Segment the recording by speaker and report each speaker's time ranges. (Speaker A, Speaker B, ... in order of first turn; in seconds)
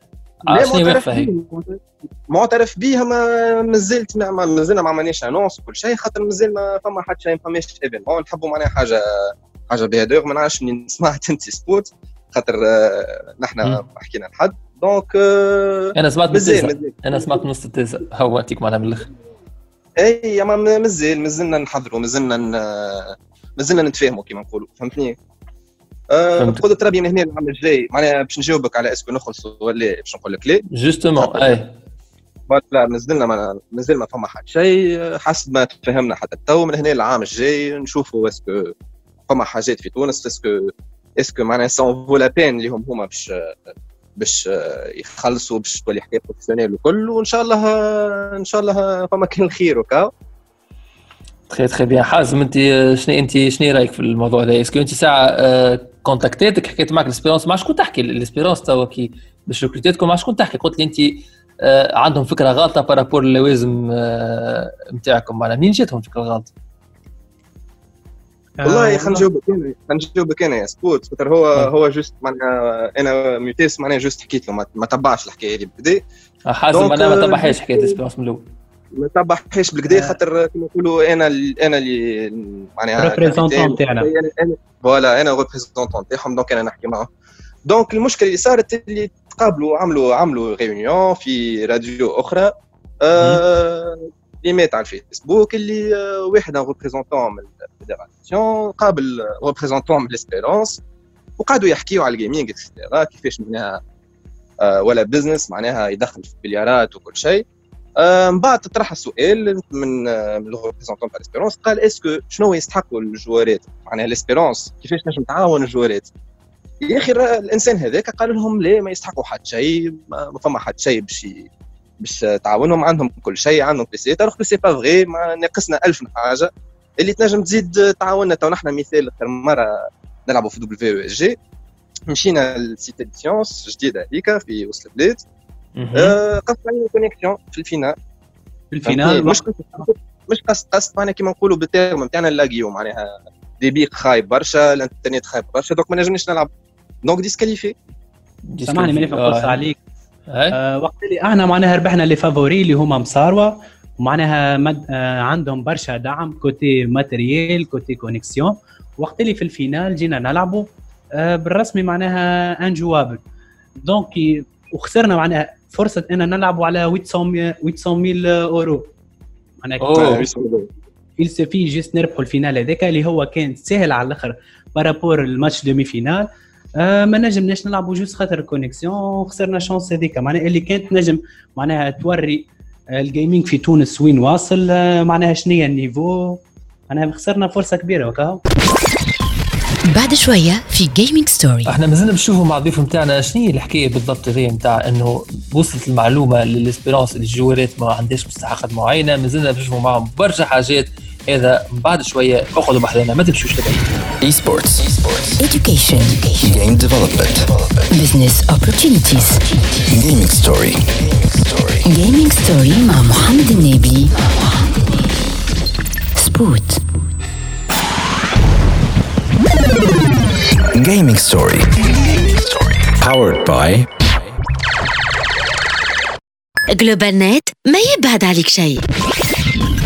Speaker A: 0.5-17.3, 20.0-25.2, 26.1-30.6, 31.2-31.6, 32.5-38.7, 39.3-43.3, 44.2-50.1, 68.6-76.0, 76.7-78.0, 79.0-87.1, 87.7-100.8, 101.4-103.8, 104.6-107.5, 108.0-116.1, 116.8-121.5, 122.0-129.7, 130.3-131.4, 132.1-135.2, 135.9-138.0, 138.8-143.1, 143.6-146.5, 147.0-147.8, 169.9-170.7
Speaker B: 0.5-1.3, 16.0-19.1, 30.7-31.7, 51.5-66.5, 76.5-78.4, 135.8-136.2, 148.5-149.6, 150.3-150.6, 169.8-170.2, 191.7-203.8
Speaker C: 68.6-69.2, 79.9-80.2, 83.0-84.1, 138.7-139.4, 148.6-149.8, 150.5-163.2, 163.8-168.9, 169.6-170.2, 171.2-176.3, 176.8-188.4
Speaker D: 189.9-191.7, 205.4-206.3, 207.9-209.4, 211.9-214.1, 216.2-216.8
Speaker E: 204.2-205.4, 206.4-207.8, 209.9-211.8, 220.7-221.7, 222.8-224.0
Speaker F: 226.7-228.8